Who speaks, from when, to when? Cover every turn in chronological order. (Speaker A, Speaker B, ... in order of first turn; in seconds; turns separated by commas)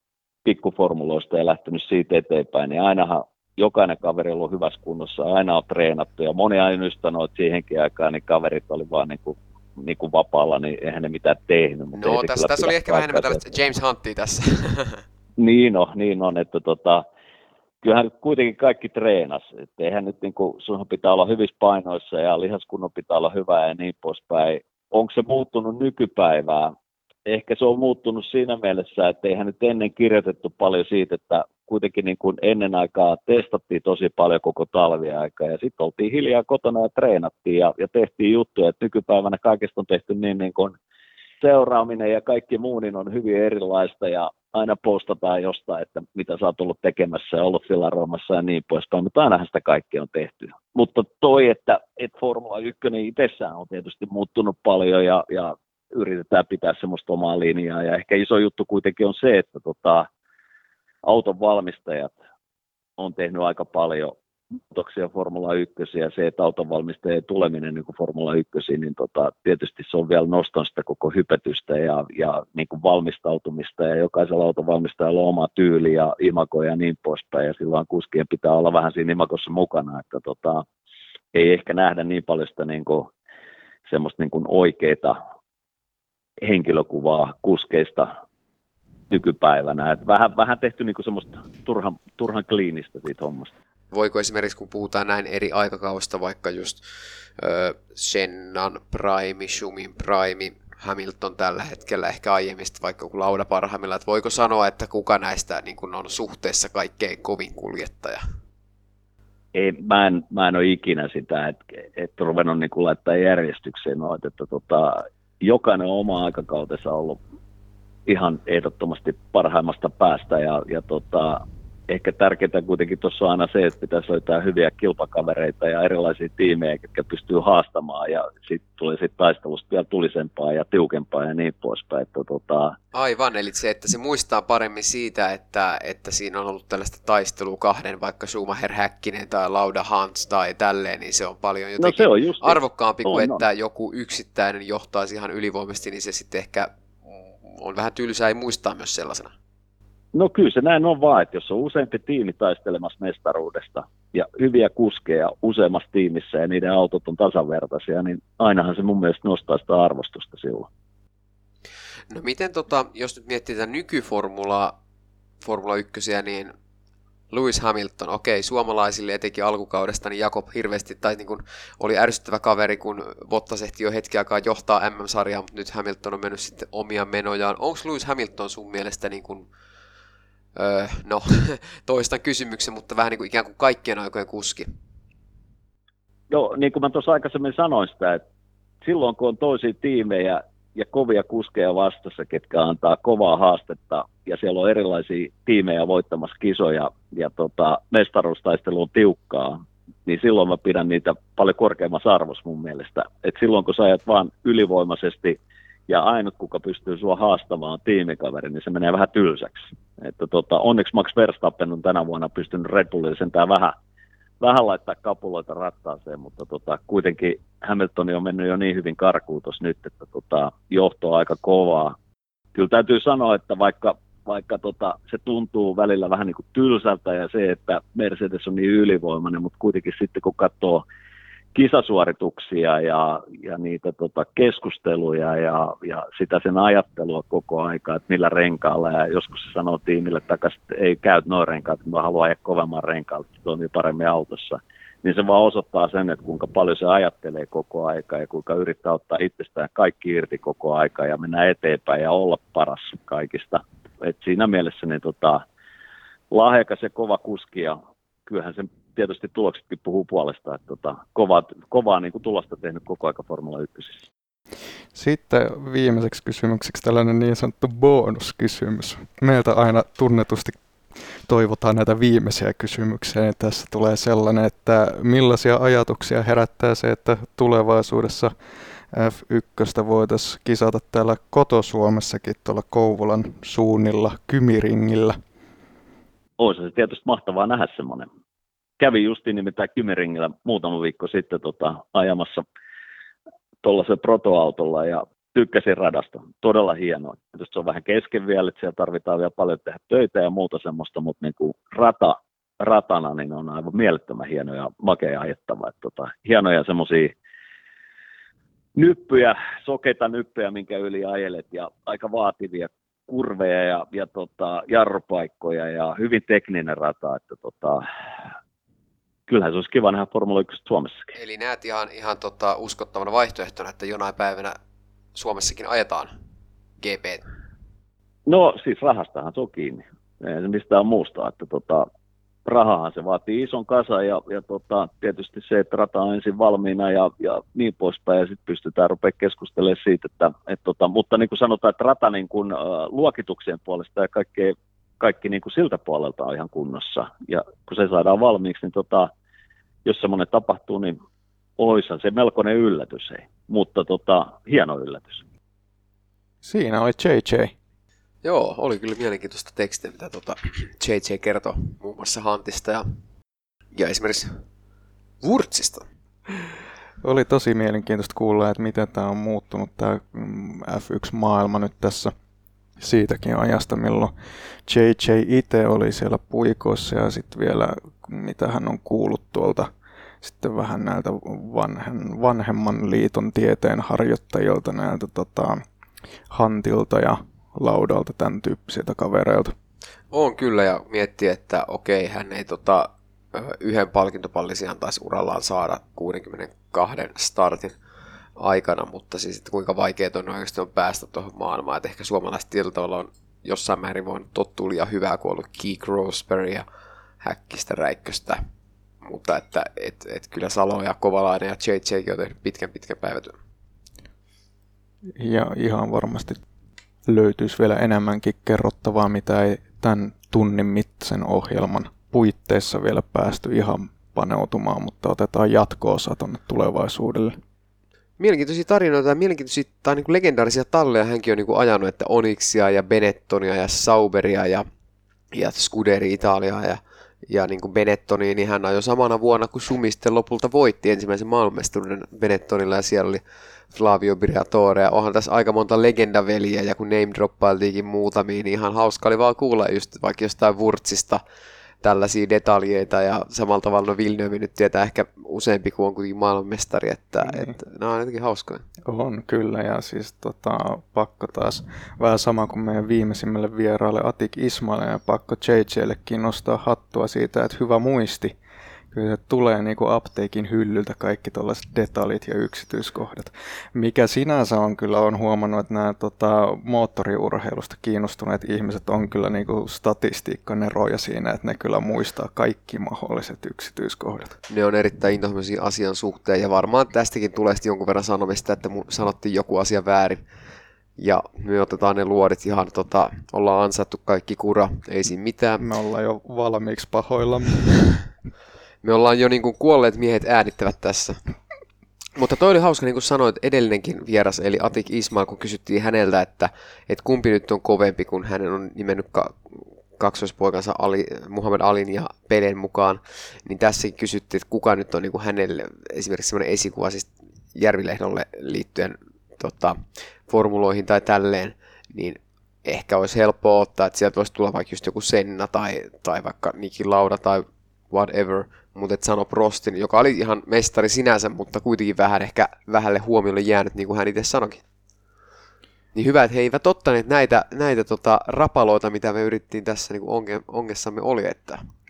Speaker A: 0.5-13.4, Speaker B: 11.9-15.0, Speaker A: 15.4-17.0, Speaker A: 17.8-26.8, Speaker A: 27.3-40.8, Speaker A: 41.4-60.1, Speaker A: 61.0-62.2, Speaker A: 63.0-64.1, Speaker A: 64.7-80.7, Speaker A: 81.3-83.1, Speaker A: 83.9-85.2, Speaker A: 86.4-88.1, Speaker A: 89.1-93.5, Speaker B: 93.9-96.8, Speaker B: 97.4-108.3, Speaker A: 109.5-117.2, Speaker A: 118.1-132.8, Speaker B: 132.9-146.7, Speaker A: 141.8-143.4, Speaker B: 147.4-149.3, Speaker A: 150.1-160.7, Speaker B: 162.1-164.8, Speaker B: 165.4-166.5, Speaker B: 167.3-179.5, Speaker B: 180.6-184.7, Speaker A: 186.3-188.2, Speaker A: 188.8-213.8, Speaker A: 214.4-221.9, Speaker A: 222.5-230.8, Speaker A: 231.5-255.4, Speaker A: 256.3-264.0, Speaker C: 264.9-270.6, Speaker C: 271.2-278.3, Speaker C: 278.9-285.2, Speaker A: 286.4-288.1, Speaker A: 288.8-292.5, Speaker A: 293.6-307.1, Speaker A: 308.8-317.8, Speaker A: 319.3-321.1, Speaker B: 321.1-324.6, Speaker B: 325.1-326.1, Speaker B: 326.8-327.2, Speaker A: 328.3-331.9, Speaker A: 332.4-349.1, Speaker A: 349.9-351.0, Speaker A: 351.6-355.2, Speaker C: 356.4-357.5, Speaker B: 358.2-362.9, Speaker B: 363.7-364.4, Speaker B: 365.2-366.5, Speaker C: 367.0-372.1, Speaker C: 372.8-374.1, Speaker C: 374.6-379.7, Speaker C: 380.2-385.6, Speaker C: 386.3-389.5, Speaker B: 390.1-397.8, Speaker B: 398.4-406.6, Speaker B: 407.2-408.4, Speaker B: 409.0-413.4, Speaker C: 415.2-416.4, Speaker C: 417.1-427.4, Speaker B: 428.2-434.7, Speaker B: 435.3-451.2, Speaker B: 451.8-458.6, Speaker C: 457.2-457.5, Speaker C: 458.9-468.4, Speaker C: 468.9-484.4, Speaker B: 484.5-490.2, Speaker B: 491.0-495.7, Speaker C: 495.6-497.9, Speaker B: 498.8-501.2, Speaker B: 502.2-534.6, Speaker B: 536.0-541.6